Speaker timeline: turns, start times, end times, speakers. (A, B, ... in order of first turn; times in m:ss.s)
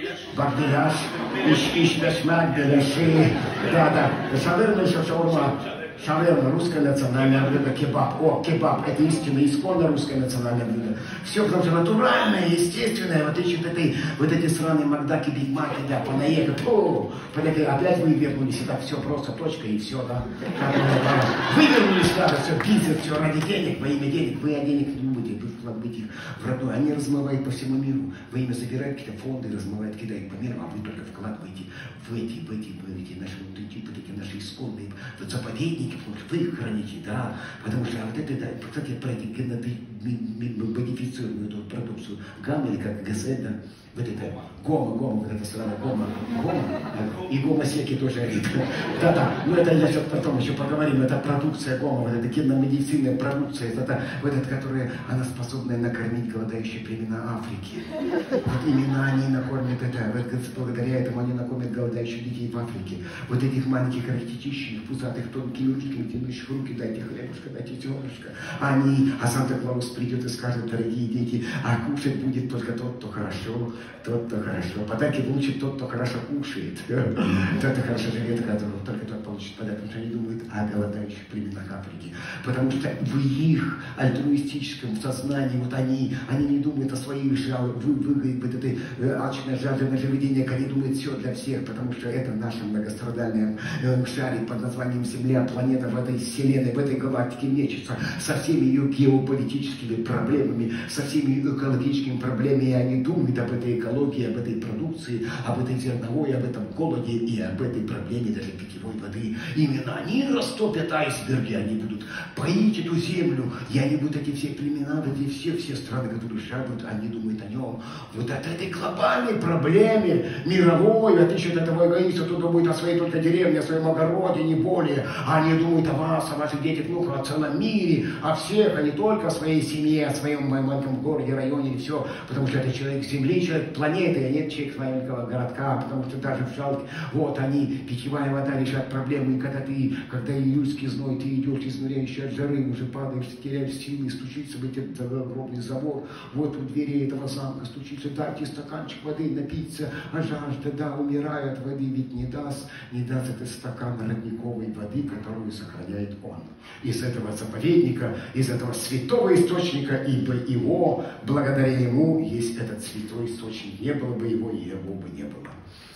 0:00.3-2:45.6 A